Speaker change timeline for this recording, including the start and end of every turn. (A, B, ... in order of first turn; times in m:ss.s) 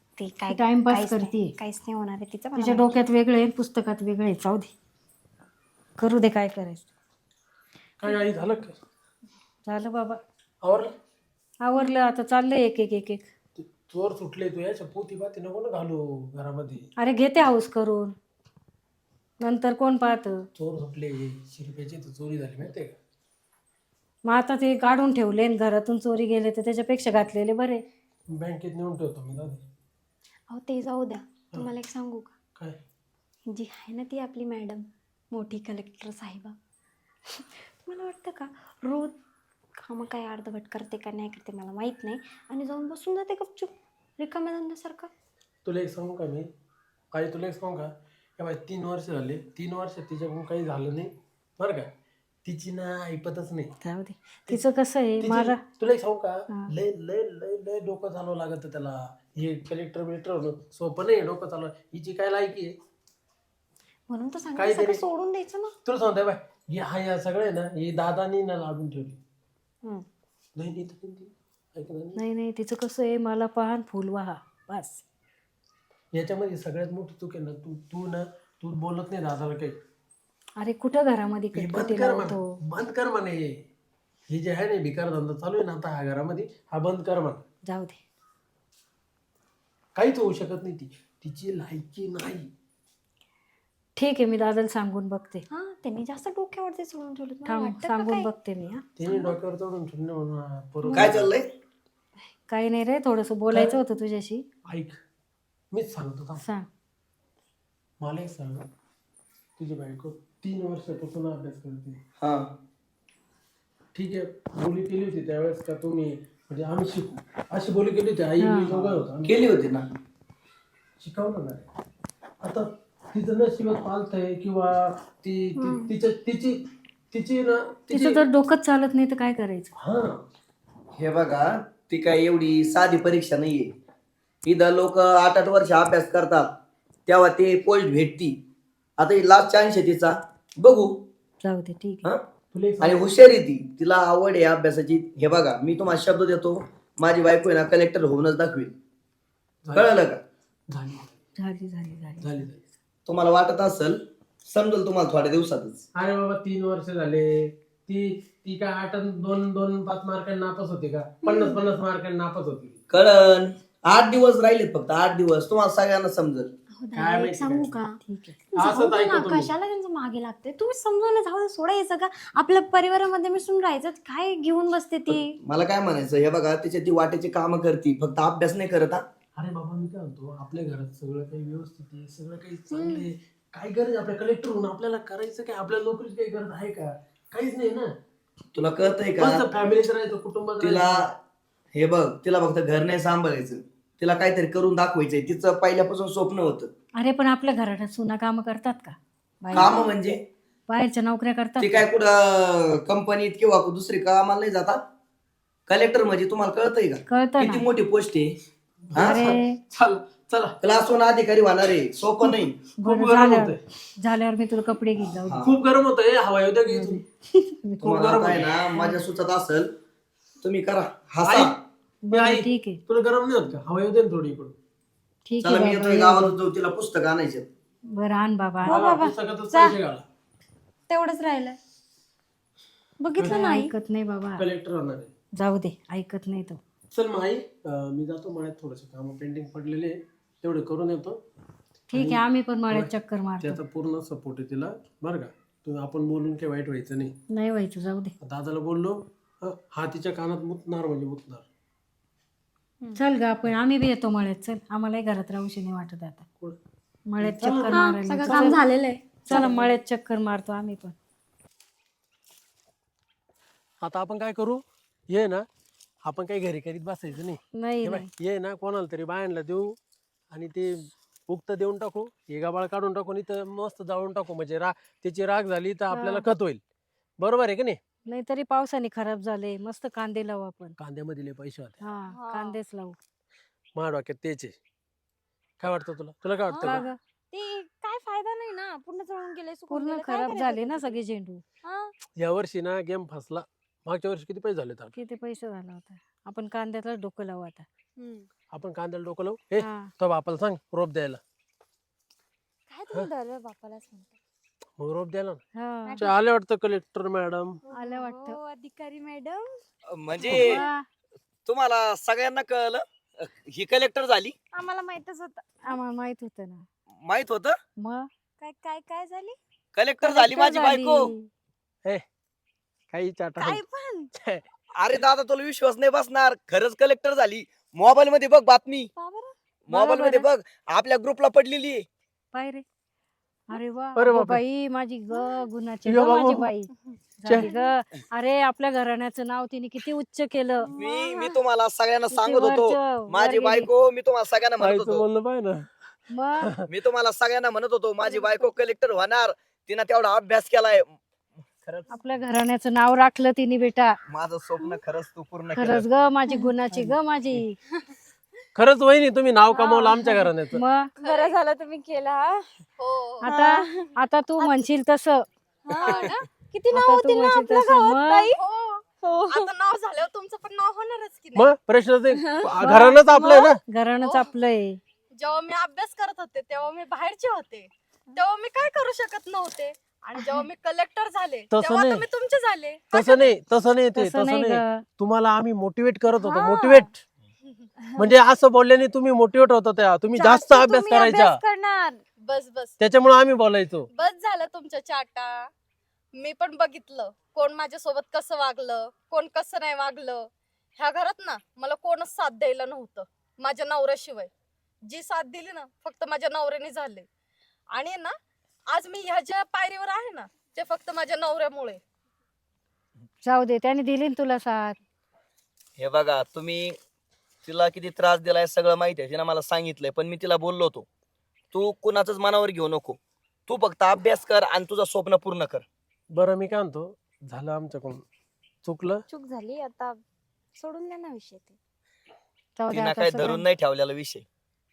0:00.2-0:03.0 A
0:00.5-0:01.6 B
0:02.6-0:04.7 B
0:06.0-0:06.9 B
0:08.0-0:08.8 C
0:09.6-0:10.2 B
0:10.6-0:10.9 C
0:11.6-0:13.3 B
0:13.6-0:16.9 C
0:17.0-0:18.1 B
0:19.4-0:20.4 B
0:20.6-0:23.0 C
0:24.2-0:27.8 B
0:28.3-0:29.6 C
0:30.5-0:32.4 A
0:33.5-0:36.6 A
0:37.4-0:39.2 A
0:39.8-0:45.1 A
0:45.6-0:46.5 C
0:47.1-0:51.9 C
0:52.4-0:53.7 C
0:53.8-0:55.6 B
0:55.2-1:02.7 C
1:04.1-1:05.7 A
1:04.6-1:05.0 C
1:05.8-1:09.2 C
1:10.6-1:12.2 C
1:12.2-1:15.0 B
1:16.1-1:19.8 C
1:20.6-1:22.5 B
1:21.5-1:23.6 C
1:24.3-1:27.4 C
1:27.6-1:28.0 B
1:30.0-1:32.5 C
1:34.0-1:35.4 B
1:35.5-1:38.3 A
1:37.4-1:38.8 B
1:39.0-1:41.3 C
1:39.0-1:39.4 A
1:40.9-1:41.1 B
1:40.9-1:41.4 D
1:42.5-1:44.4 B
1:43.5-1:43.8 C
1:44.7-1:45.0 C
1:45.7-1:46.4 C
1:46.4-1:46.7 B
1:48.0-1:48.7 C
1:49.6-1:52.0 C
1:52.2-1:52.5 D
1:53.9-1:59.3 C
1:58.4-1:58.7 B
1:58.7-1:59.8 D
2:01.0-2:01.6 C
2:02.4-2:08.2 C
2:05.6-2:05.9 A
2:07.9-2:09.7 B
2:09.8-2:10.2 C
2:11.0-2:13.7 D
2:14.4-2:16.5 D
2:17.1-2:18.4 D
2:19.0-2:21.0 D
2:21.4-2:22.0 B
2:22.5-2:23.0 C
2:22.8-2:28.7 D
2:29.6-2:30.0 C
2:29.7-2:30.2 D
2:30.7-2:31.2 C
2:31.4-2:32.4 B
2:32.2-2:32.6 C
2:33.1-2:35.8 D
2:35.9-2:42.8 C
2:41.2-2:41.5 A
2:42.9-2:46.5 D
2:46.8-2:48.0 A
2:46.9-2:47.8 C
2:48.0-2:48.4 B
2:48.5-2:55.4 A
2:48.5-2:49.5 C
2:55.4-2:59.0 D
2:59.4-3:07.9 C
3:02.7-3:03.0 A
3:08.5-3:09.4 D
3:09.2-3:11.1 C
3:10.6-3:11.1 D
3:11.7-3:16.7 D
3:17.0-3:19.8 B
3:19.5-3:19.9 A
3:19.5-3:20.2 D
3:20.7-3:21.8 B
3:21.6-3:24.8 D
3:25.7-3:28.3 D
3:27.1-3:27.6 B
3:28.9-3:29.2 C
3:29.0-3:32.5 D
3:29.0-3:29.6 B
3:30.3-3:30.5 C
3:32.3-3:33.6 C
3:32.8-3:35.4 B
3:35.2-3:35.5 D
3:35.4-3:37.0 C
3:36.7-3:38.0 B
3:37.8-3:39.7 D
3:37.9-3:38.4 C
3:40.4-3:41.5 D
3:41.2-3:41.5 C
3:42.0-3:42.8 B
3:42.1-3:44.5 C
3:45.2-3:46.3 B
3:45.4-3:47.5 D
3:47.9-3:48.8 B
3:48.6-3:50.0 C
3:48.6-3:49.8 A
3:50.9-3:51.6 A
3:53.0-3:53.7 A
3:53.2-3:53.5 C
3:53.2-3:54.4 B
3:54.4-3:55.1 C
3:55.4-3:56.6 B
3:56.9-4:01.2 C
4:01.9-4:03.6 B
4:01.9-4:07.1 C
4:07.3-4:08.1 B
4:08.2-4:11.5 C
4:12.9-4:16.2 B
4:17.1-4:18.6 B
4:17.2-4:18.6 C
4:17.7-4:19.5 A
4:19.2-4:21.0 B
4:19.3-4:19.7 C
4:23.8-4:25.4 C
4:26.0-4:29.8 C
4:27.6-4:28.1 B
4:30.3-4:36.6 C
4:35.9-4:36.2 B
4:37.2-4:37.8 C
4:38.1-4:40.8 B
4:40.8-4:41.8 C
4:41.8-4:43.0 B
4:42.1-4:42.6 A
4:43.7-4:44.6 C
4:45.6-4:46.9 C
4:46.5-4:46.8 A
4:46.6-4:47.0 B
4:47.3-4:51.0 A
4:49.7-4:51.4 B
4:51.6-4:51.9 A
4:52.2-4:54.9 C
4:54.9-4:57.6 B
4:58.0-4:58.3 A
4:58.5-5:01.2 C
4:59.6-4:59.9 B
5:02.7-5:04.2 A
5:04.8-5:05.4 C
5:05.5-5:06.1 B
5:05.8-5:06.1 A
5:06.0-5:07.6 C
5:07.7-5:09.6 A
5:07.7-5:08.4 B
5:09.9-5:10.6 D
5:10.2-5:10.8 B
5:10.3-5:10.6 A
5:11.4-5:14.3 D
5:14.5-5:15.4 A
5:15.6-5:16.6 B
5:17.0-5:17.5 D
5:17.8-5:18.1 B
5:18.4-5:19.4 A
5:19.7-5:21.1 D
5:20.0-5:21.3 B
5:22.9-5:23.6 C
5:23.4-5:24.1 A
5:24.2-5:24.4 C
5:24.8-5:28.9 D
5:29.0-5:29.3 A
5:29.7-5:31.8 D
5:29.7-5:30.2 B
5:32.3-5:32.6 B
5:33.5-5:40.7 B
5:34.0-5:34.4 C
5:35.1-5:35.4 A
5:35.8-5:36.5 C
5:37.4-5:37.6 A
5:40.7-5:41.4 A
5:40.7-5:45.0 D
5:42.1-5:43.7 B
5:44.6-5:45.7 C
5:46.1-5:46.5 B
5:46.4-5:46.6 C
5:46.7-5:50.9 D
5:48.0-5:48.5 A
5:51.6-5:51.9 D
5:51.9-5:54.0 B
5:54.1-5:55.9 D
5:55.5-5:57.6 B
5:58.5-6:00.6 C
5:59.5-6:00.3 A
6:00.5-6:00.9 B
6:01.0-6:02.5 A
6:01.0-6:01.4 E
6:02.8-6:03.3 E
6:03.2-6:05.3 B
6:03.2-6:04.6 A
6:05.6-6:08.4 A
6:05.8-6:06.2 E
6:06.7-6:08.3 B
6:08.3-6:11.5 E
6:09.0-6:09.5 A
6:11.3-6:13.6 C
6:12.1-6:12.5 A
6:12.6-6:14.8 B
6:15.2-6:23.3 E
6:21.5-6:22.0 C
6:22.9-6:27.0 C
6:24.0-6:24.8 B
6:26.2-6:26.9 A
6:28.0-6:31.4 C
6:30.2-6:32.0 A
6:32.2-6:32.7 E
6:32.8-6:33.9 C
6:33.9-6:35.5 E
6:36.2-6:44.3 E
6:44.9-6:47.1 E
6:47.7-6:48.1 E
6:48.7-6:51.8 E
6:53.2-6:54.8 B
6:55.8-6:56.7 D
6:57.4-7:00.9 D
7:01.5-7:05.6 D
7:06.1-7:08.0 C
7:08.6-7:09.0 C
7:09.1-7:10.0 A
7:10.6-7:11.6 A
7:12.6-7:13.4 B
7:12.7-7:14.2 D